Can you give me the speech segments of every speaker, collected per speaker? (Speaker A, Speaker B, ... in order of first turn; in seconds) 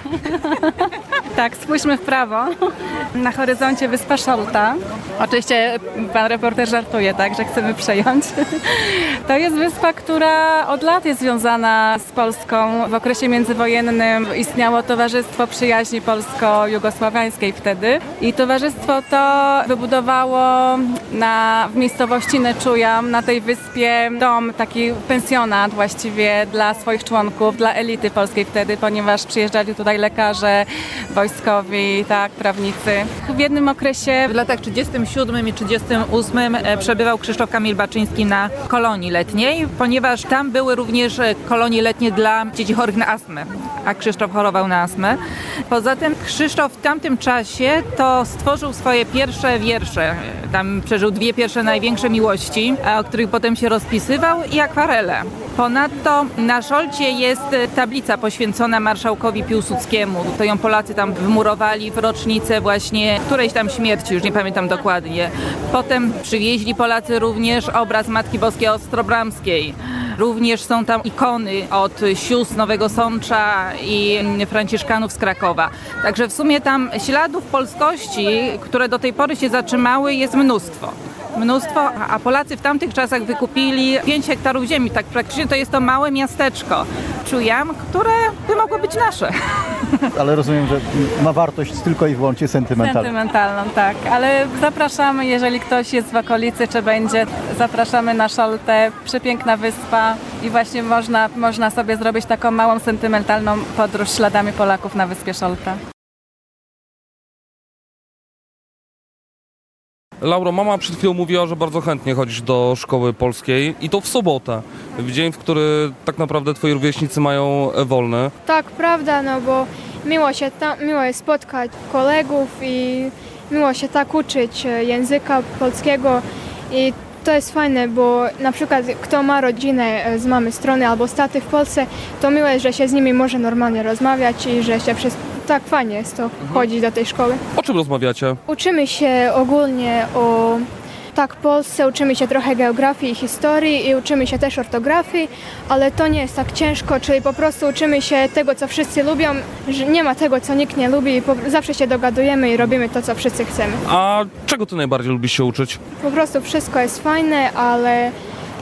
Speaker A: 0.2-34.3, 92.8-105.8
Speaker B: 34.3-89.4
Speaker C: 90.2-93.1
Speaker D: 110.2-118.3, 137.6-138.4, 153.9-155.8
Speaker E: 118.5-137.4, 138.5-153.8, 156.0-158.1